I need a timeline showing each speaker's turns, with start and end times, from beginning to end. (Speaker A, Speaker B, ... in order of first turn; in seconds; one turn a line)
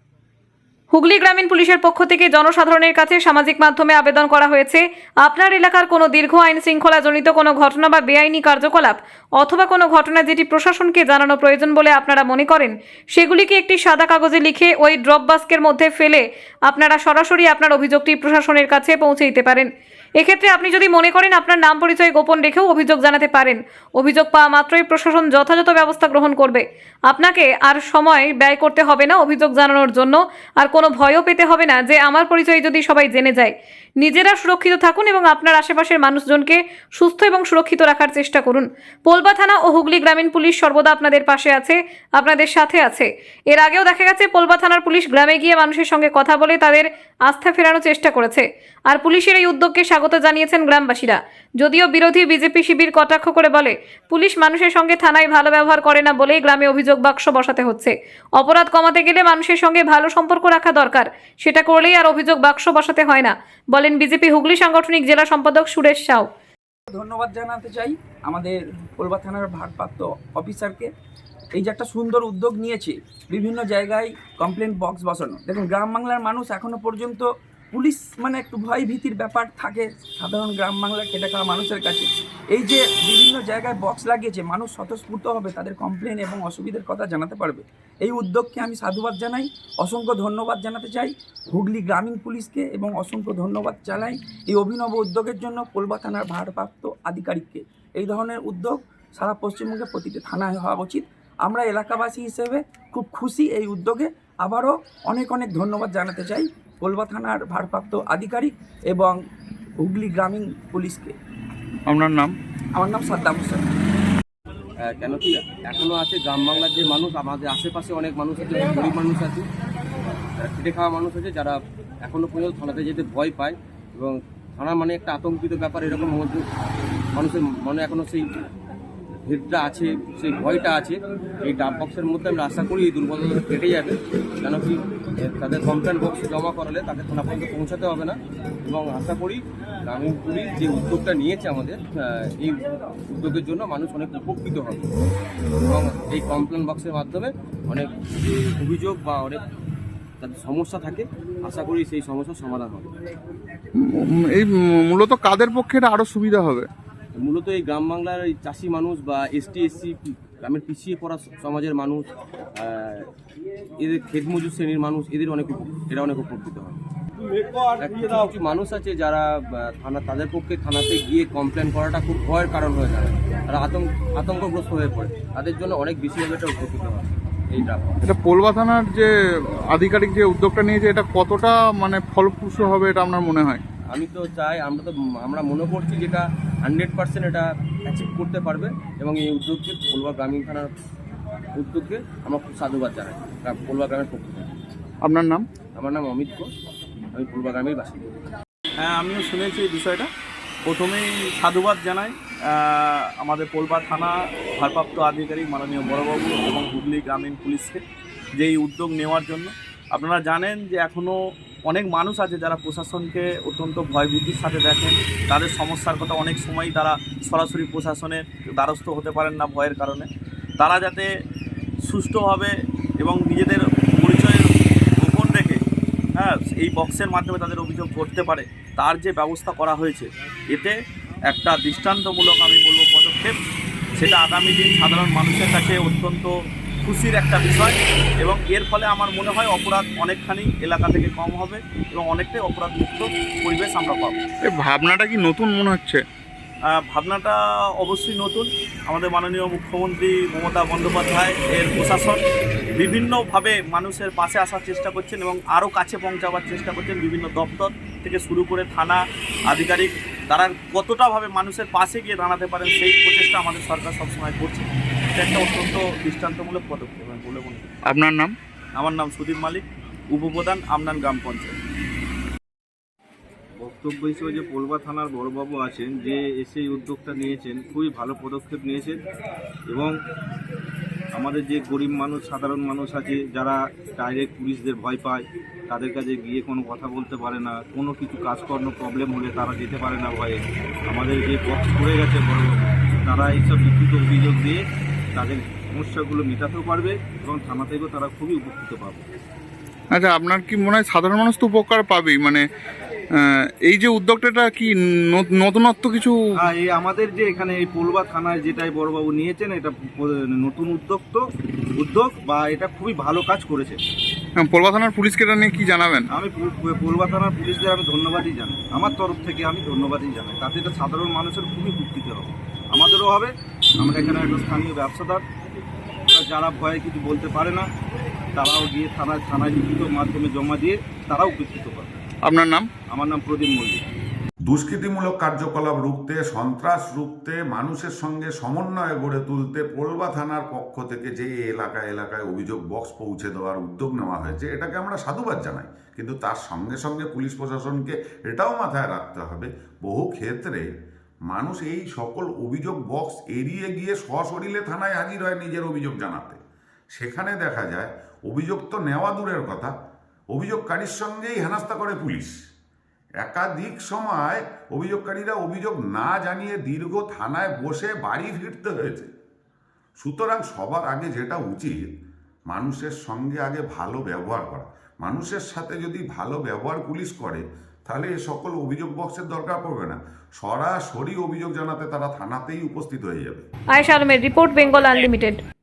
Speaker A: 0.9-66.3
Speaker B: 66.9-70.9
Speaker B: 71.6-109.2
Speaker B: 109.8-111.1
Speaker C: 111.9-112.4
Speaker B: 112.8-113.6
Speaker D: 114.8-119.5
Speaker D: 120.4-126.4
Speaker D: 127.2-128.3
Speaker D: 129.3-144.9
Speaker D: 145.7-149.4
Speaker D: 150.2-152.9
Speaker C: 153.8-156.7
Speaker D: 157.2-163.1
Speaker D: 163.8-166.8
Speaker E: 167.4-168.0
Speaker D: 167.8-178.0
Speaker C: 178.0-179.1
Speaker C: 179.7-183.6
Speaker D: 183.9-190.7
Speaker D: 191.6-194.5
Speaker C: 195.0-195.5
Speaker D: 195.8-196.5
Speaker D: 197.2-198.2
Speaker F: 198.8-200.1
Speaker F: 200.7-207.8
Speaker F: 208.4-211.2
Speaker F: 211.7-220.1
Speaker F: 220.6-221.1
Speaker F: 221.8-224.4
Speaker F: 225.0-225.6
Speaker F: 226.2-230.8
Speaker F: 231.3-233.4
Speaker F: 234.0-236.3
Speaker F: 236.8-244.2
Speaker C: 244.5-246.0
Speaker F: 246.7-252.2
Speaker F: 252.8-267.7
Speaker C: 267.9-268.4
Speaker F: 268.8-271.6
Speaker E: 273.6-279.0
Speaker E: 279.7-279.9
Speaker E: 281.1-294.6
Speaker E: 295.1-299.1
Speaker C: 299.9-302.5
Speaker C: 303.1-306.2
Speaker E: 306.4-313.8
Speaker C: 314.4-316.1
Speaker E: 316.1-325.2
Speaker E: 326.1-327.7
Speaker E: 328.4-331.9
Speaker C: 332.2-332.7
Speaker E: 332.9-333.8
Speaker G: 334.4-350.6
Speaker G: 351.3-356.4
Speaker G: 356.9-359.7
Speaker G: 360.3-362.3
Speaker G: 363.2-369.1
Speaker G: 370.0-371.8
Speaker G: 372.5-383.4
Speaker A: 383.7-385.4